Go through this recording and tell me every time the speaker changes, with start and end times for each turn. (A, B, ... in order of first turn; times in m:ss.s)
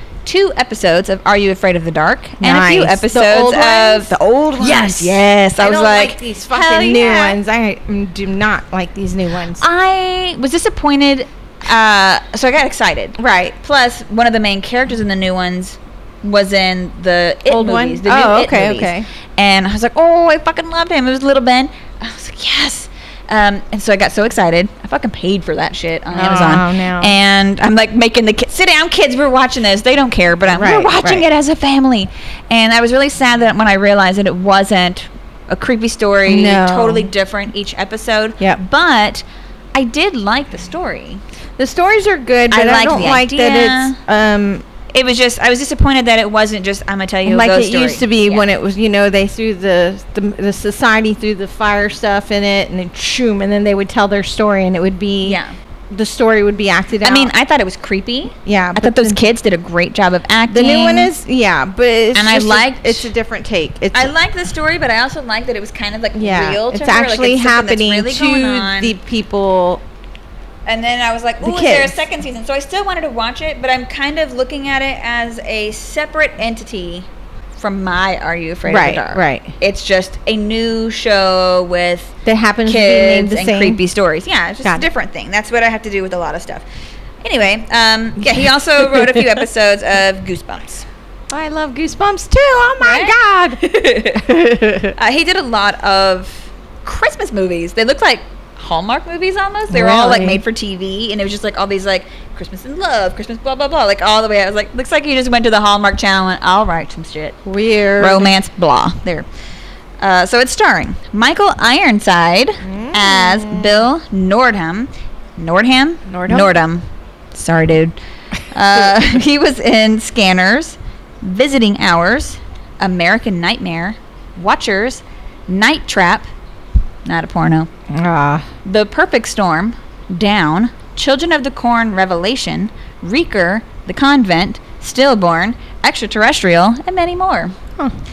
0:00.2-0:07.4 A
0:02.4-0:09.6 B
0:09.6-0:41.2 A
0:13.2-0:13.6 B
0:17.5-0:19.1 B
0:26.1-0:27.1 B
0:30.5-0:31.2 B
0:36.3-0:37.1 B
0:41.6-0:44.6 B
0:42.5-0:44.0 A
0:44.9-0:48.4 A
0:47.2-0:57.3 B
0:55.2-0:55.5 A
0:57.0-1:01.1 A
0:58.4-0:59.2 B
1:00.5-1:04.1 B
1:02.1-1:03.1 A
1:03.9-1:09.0 A
1:06.1-1:09.8 B
1:10.6-1:22.1 A
1:11.4-1:12.0 B
1:18.6-1:19.5 B
1:22.2-1:23.8 B
1:22.7-1:26.6 A
1:27.2-1:30.8 A
1:28.2-1:29.4 B
1:31.3-1:33.6 B
1:32.8-1:34.3 A
1:34.1-1:34.9 B
1:34.9-1:47.4 A
1:39.7-1:40.4 B
1:47.4-1:48.4 B
1:48.0-1:49.2 A
1:50.0-1:58.0 A
1:52.6-1:53.9 B
1:56.1-1:56.5 B
1:58.5-2:06.3 A
2:07.0-2:07.7 A
2:07.9-2:08.5 B
2:08.6-2:17.5 A